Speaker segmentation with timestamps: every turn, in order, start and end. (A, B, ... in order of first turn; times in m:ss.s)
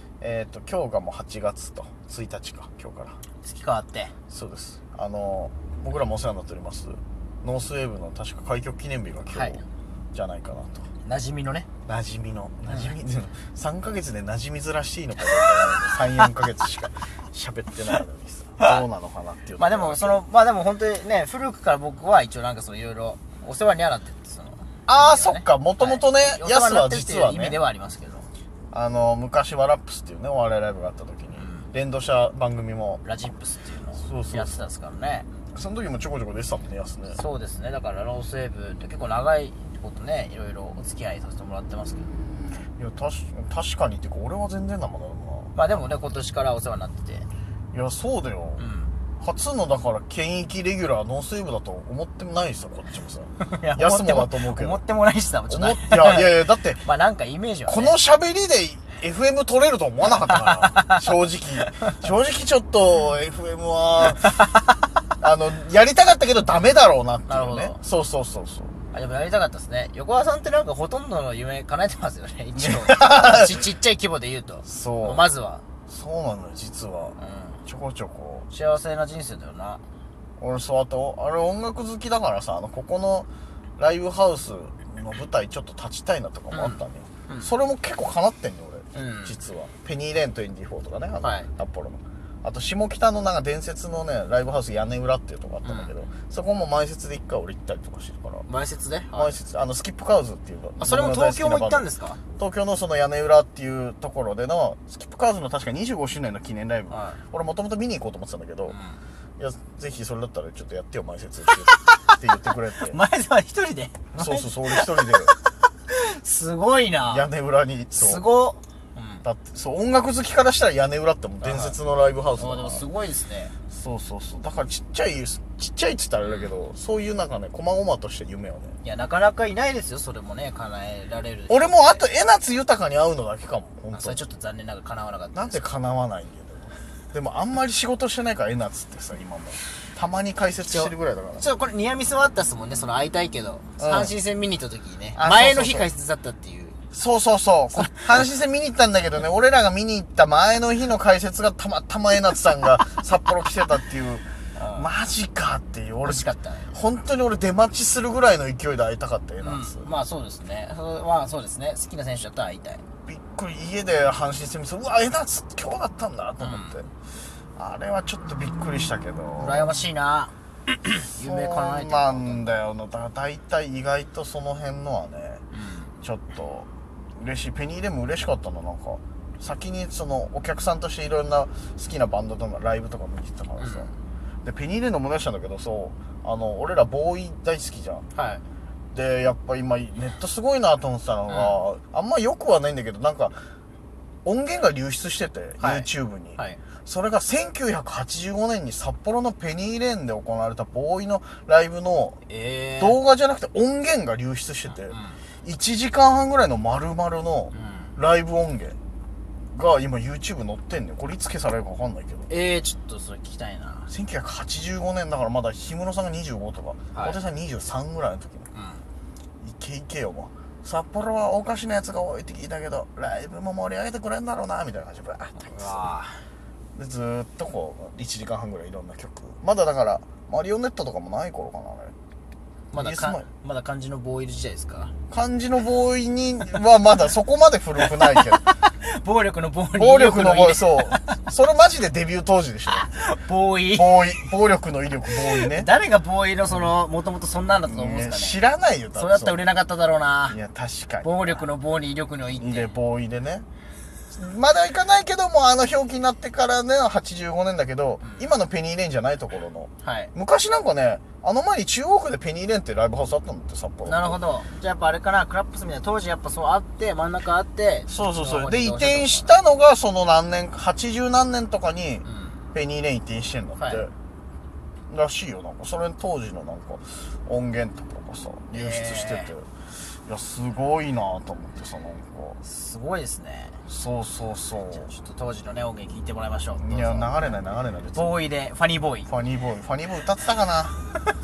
0:00.2-0:03.2 A
0:03.4-0:04.1 B
0:04.3-0:09.6 A
0:09.3-0:09.6 B
0:10.1-0:10.9 A
0:11.0-0:11.7 B
0:11.8-0:20.2 A
0:12.7-0:12.9 B
0:19.6-0:28.2 B
0:24.9-0:27.6 A
0:28.7-0:33.0 A
0:31.4-0:31.7 B
0:33.0-0:35.3 B
0:34.0-0:34.6 A
0:35.5-0:37.2 A
0:37.1-0:42.1 B
0:42.8-0:45.5 A
0:45.5-0:47.3 B
0:47.7-0:48.6 A
0:48.6-0:48.9 B
0:49.2-0:54.8 A
0:53.4-0:58.0 B
0:55.5-0:56.8 A
0:57.7-1:04.5 A
1:00.3-1:01.0 B
1:01.6-1:01.9 B
1:05.2-1:08.7 A
1:07.3-1:07.8 B
1:08.9-1:15.6 B
1:12.6-1:13.6 A
1:14.6-1:15.2 A
1:15.9-1:18.5 A
1:17.2-1:17.6 B
1:18.5-1:19.8 B
1:20.4-1:38.4 A
1:26.5-1:27.5 B
1:28.9-1:29.4 B
1:31.2-1:31.5 B
1:35.6-1:35.9 B
1:38.5-1:39.3 B
1:39.1-1:48.8 A
1:40.8-1:42.2 B
1:46.9-1:47.2 B
1:48.7-1:49.0 B
1:49.4-1:53.0 A
1:51.7-1:52.1 B
1:52.8-1:57.2 B
1:54.1-1:55.3 A
1:57.0-1:58.2 A
1:57.9-1:59.2 B
1:59.2-2:02.8 A
2:01.4-2:01.8 B
2:02.4-2:03.5 B
2:03.7-2:08.8 A
2:06.2-2:06.5 B
2:08.8-2:12.0 B
2:11.5-2:14.2 A
2:13.9-2:15.6 B
2:15.3-2:21.5 A
2:20.7-2:26.8 B
2:23.8-2:24.1 A
2:25.1-2:25.9 A
2:26.9-2:34.2 A
2:27.7-2:28.2 B
2:34.5-2:34.9 B
2:34.8-2:39.9 A
2:36.0-2:36.8 B
2:39.4-2:42.8 B
2:43.0-2:46.9 A
2:46.4-2:46.8 B
2:47.6-2:49.7 A
2:49.4-2:52.4 B
2:51.1-2:55.4 A
2:55.5-2:55.9 B
2:56.0-3:03.9 A
3:03.6-3:03.9 B
3:04.4-3:08.0 A
3:08.1-3:08.4 B
3:08.9-3:13.4 A
3:11.3-3:11.5 B
3:14.2-3:22.2 A
3:15.6-3:16.6 B
3:22.3-3:23.0 B
3:22.8-3:28.8 A
3:24.8-3:25.2 B
3:27.5-3:27.9 B
3:29.5-3:32.3 A
3:32.3-3:33.9 B
3:33.9-3:38.5 A
3:36.9-3:37.2 B
3:38.5-3:38.8 B
3:39.4-3:45.9 A
3:45.4-3:46.2 B
3:46.8-3:51.9 A
3:52.7-3:54.9 B
3:52.7-3:53.3 A
3:55.1-3:58.4 A
3:57.8-4:01.2 B
3:59.7-4:03.0 A
4:02.7-4:04.1 B
4:03.7-4:05.7 A
4:05.3-4:08.4 B
4:07.6-4:09.4 A
4:09.0-4:10.4 B
4:10.3-4:11.4 A
4:11.0-4:12.7 B
4:12.4-4:13.5 A
4:14.1-4:24.2 A
4:18.0-4:18.3 B
4:19.8-4:20.1 B
4:23.8-4:29.3 B
4:27.9-4:33.9 A
4:32.0-4:32.4 B
4:33.6-4:33.8 B
4:34.9-4:39.5 A
4:38.5-4:39.3 B
4:40.0-4:42.4 A
4:42.4-4:43.6 B
4:43.6-4:44.9 A
4:44.7-4:47.3 B
4:46.6-4:48.2 A
4:47.9-4:49.1 B
4:49.1-4:50.8 A